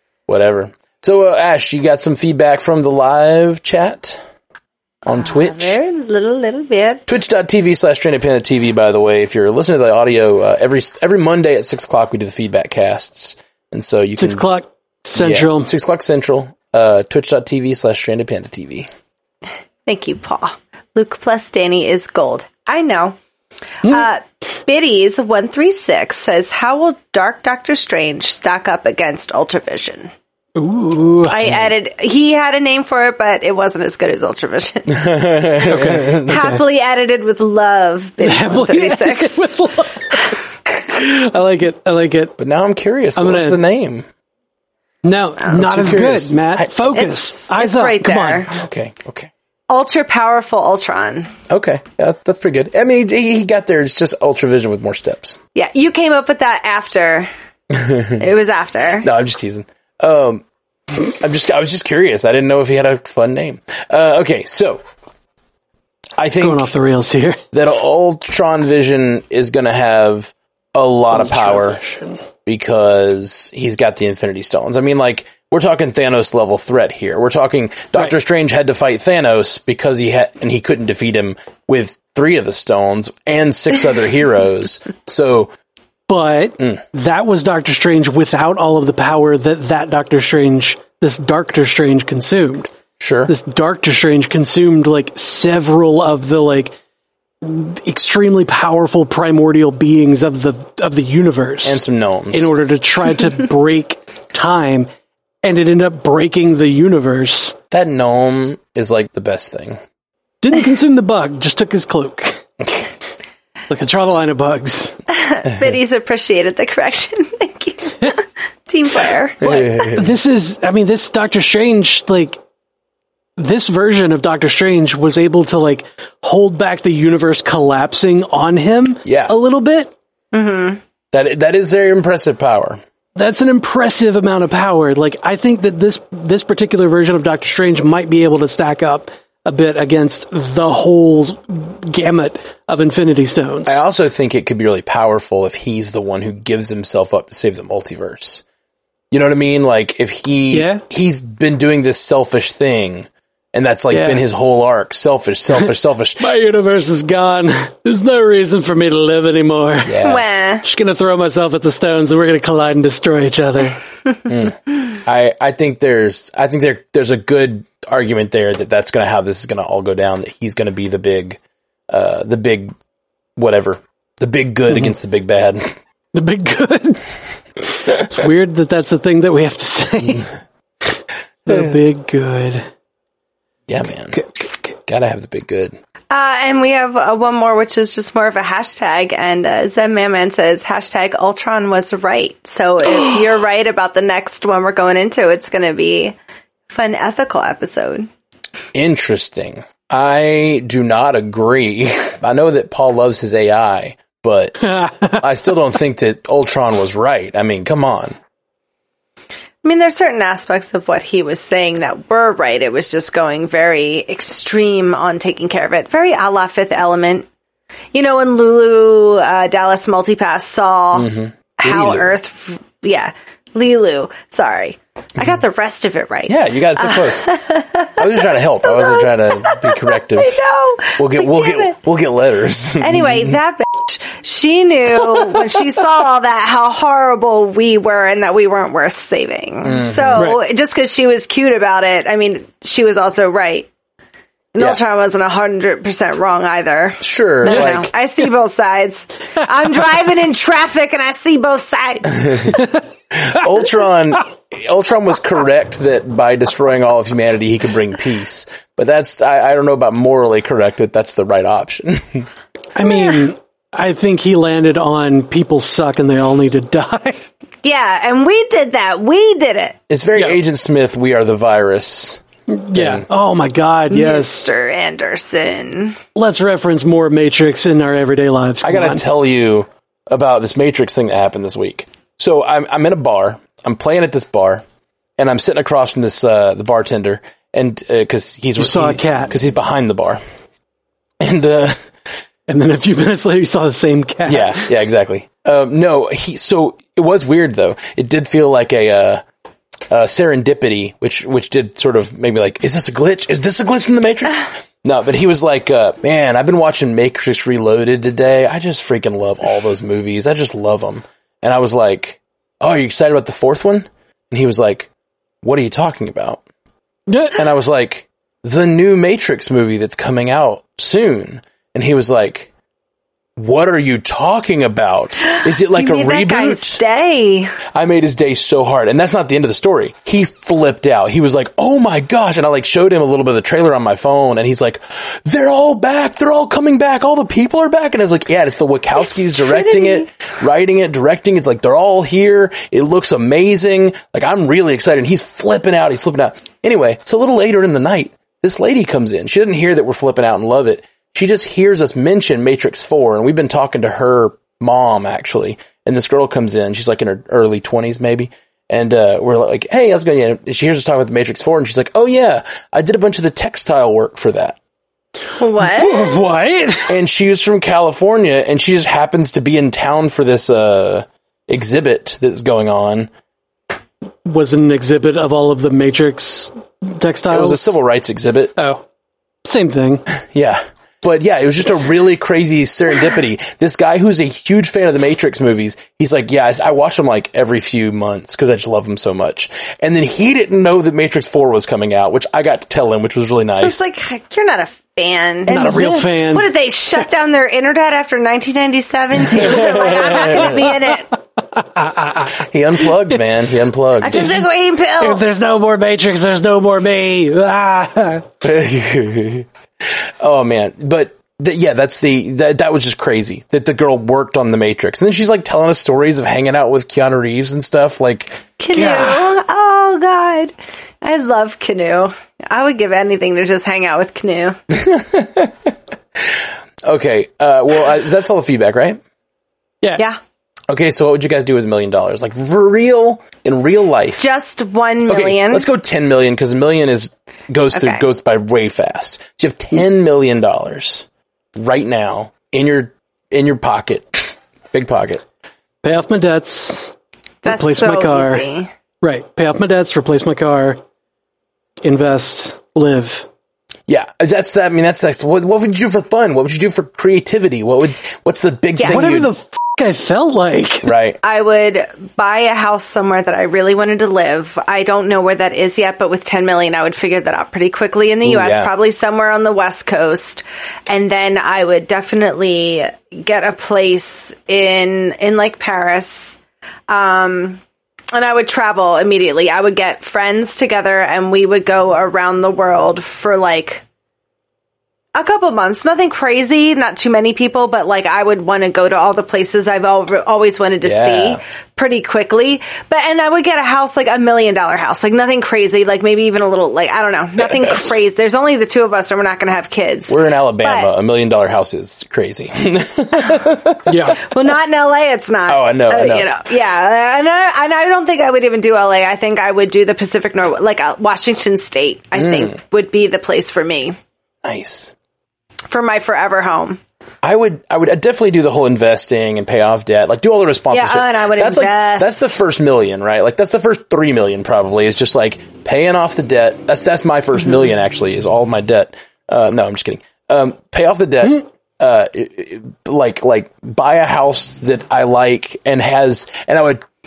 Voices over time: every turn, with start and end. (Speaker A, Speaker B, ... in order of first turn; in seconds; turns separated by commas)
Speaker A: 0.3-4.2, Speaker A: 5.0-5.8, Speaker B: 5.1-7.0, Speaker A: 7.1-14.4, Speaker C: 14.2-15.7, Speaker A: 15.2-18.9, Speaker B: 19.9-23.2, Speaker B: 23.8-30.1, Speaker C: 30.6-31.3, Speaker B: 31.2-35.1, Speaker A: 34.9-36.5, Speaker C: 35.6-36.6, Speaker B: 36.2-39.5, Speaker C: 38.2-42.4, Speaker A: 42.4-44.0, Speaker C: 43.1-43.6, Speaker C: 45.0-48.5, Speaker A: 45.5-47.0, Speaker B: 46.9-48.5, Speaker A: 48.5-49.3, Speaker B: 49.7-51.3, Speaker A: 51.5-55.4, Speaker B: 55.5-57.3, Speaker A: 57.7-58.2, Speaker B: 58.2-59.1, Speaker A: 59.0-64.8, Speaker A: 66.2-66.7, Speaker C: 66.4-67.4, Speaker A: 67.5-71.8, Speaker C: 71.1-72.2, Speaker A: 72.5-85.5, Speaker C: 86.1-92.7, Speaker A: 93.0-93.3, Speaker C: 93.3-96.7, Speaker C: 97.4-101.8, Speaker A: 101.6-102.5, Speaker C: 102.3-104.9, Speaker C: 105.4-107.5, Speaker A: 107.7-109.8, Speaker C: 110.4-112.5, Speaker C: 113.7-115.0, Speaker B: 115.1-119.6, Speaker A: 119.4-120.1, Speaker C: 119.6-122.4, Speaker C: 123.4-129.9, Speaker A: 129.0-129.3, Speaker B: 130.3-130.8, Speaker A: 131.1-132.8, Speaker C: 133.2-143.8, Speaker A: 143.7-148.4, Speaker A: 149.1-156.2, Speaker C: 150.5-150.8, Speaker C: 153.9-154.2, Speaker C: 156.2-160.0, Speaker A: 159.8-160.2, Speaker B: 160.0-160.6, Speaker C: 160.6-163.8, Speaker A: 164.3-171.4, Speaker A: 171.9-172.7, Speaker A: 173.3-175.8, Speaker C: 176.1-177.1, Speaker C: 177.6-180.3, Speaker C: 181.4-182.7, Speaker A: 183.7-184.2, Speaker C: 184.1-184.7, Speaker A: 184.8-185.8, Speaker B: 186.1-196.1, Speaker B: 196.7-198.1, Speaker A: 198.7-204.6, Speaker C: 204.6-205.2, Speaker A: 205.2-208.2, Speaker B: 209.6-217.3, Speaker B: 217.9-221.1, Speaker A: 220.9-222.1, Speaker B: 221.6-231.7, Speaker A: 226.3-227.3, Speaker A: 228.0-230.4, Speaker A: 231.0-233.3, Speaker B: 232.8-243.7, Speaker A: 235.1-235.4, Speaker A: 239.6-240.3, Speaker B: 244.5-252.5, Speaker A: 247.0-247.9, Speaker C: 247.5-247.7, Speaker A: 252.3-252.6, Speaker C: 252.5-252.8, Speaker A: 253.1-262.3, Speaker C: 262.7-267.2, Speaker B: 267.6-269.8, Speaker A: 269.9-272.2, Speaker C: 272.5-274.5, Speaker A: 272.7-273.1, Speaker B: 273.9-276.0, Speaker C: 276.1-279.0, Speaker A: 278.6-284.6, Speaker A: 285.2-290.2, Speaker C: 288.6-289.3, Speaker A: 291.2-291.8, Speaker C: 292.5-294.7, Speaker A: 294.2-299.2, Speaker A: 299.9-314.9, Speaker A: 315.4-316.4, Speaker C: 317.1-317.4, Speaker A: 317.3-322.5, Speaker A: 323.4-326.8, Speaker B: 325.3-327.6, Speaker A: 327.7-364.6, Speaker B: 339.1-340.1, Speaker B: 365.4-366.1, Speaker C: 365.6-366.9, Speaker A: 366.9-373.1, Speaker C: 374.2-377.7, Speaker A: 377.3-378.5, Speaker C: 378.6-378.8, Speaker C: 379.4-380.0, Speaker A: 380.3-393.9, Speaker B: 393.6-401.1, Speaker C: 395.5-396.5, Speaker A: 399.4-400.5, Speaker C: 399.6-402.5, Speaker A: 402.4-404.4, Speaker B: 404.0-405.2, Speaker C: 405.0-408.3, Speaker A: 408.4-418.4, Speaker B: 418.6-424.6, Speaker C: 418.7-419.2, Speaker A: 424.7-429.0, Speaker A: 430.7-434.2, Speaker B: 434.2-435.6, Speaker A: 435.1-445.2, Speaker B: 437.7-438.0, Speaker C: 445.8-448.4, Speaker B: 447.4-448.7, Speaker C: 449.0-450.8, Speaker C: 451.8-453.3, Speaker A: 453.9-459.3, Speaker B: 458.8-459.1, Speaker C: 458.9-460.9, Speaker A: 460.8-461.2, Speaker B: 461.2-477.6, Speaker A: 468.2-468.7, Speaker B: 478.1-483.8, Speaker B: 485.1-500.9, Speaker A: 490.8-491.4, Speaker A: 497.4-497.8, Speaker A: 500.1-504.1, Speaker C: 503.9-504.2, Speaker B: 504.2-514.0, Speaker A: 505.5-506.3, Speaker A: 512.1-512.5, Speaker A: 514.4-514.9, Speaker B: 515.7-516.8, Speaker A: 517.2-536.8, Speaker B: 520.7-522.3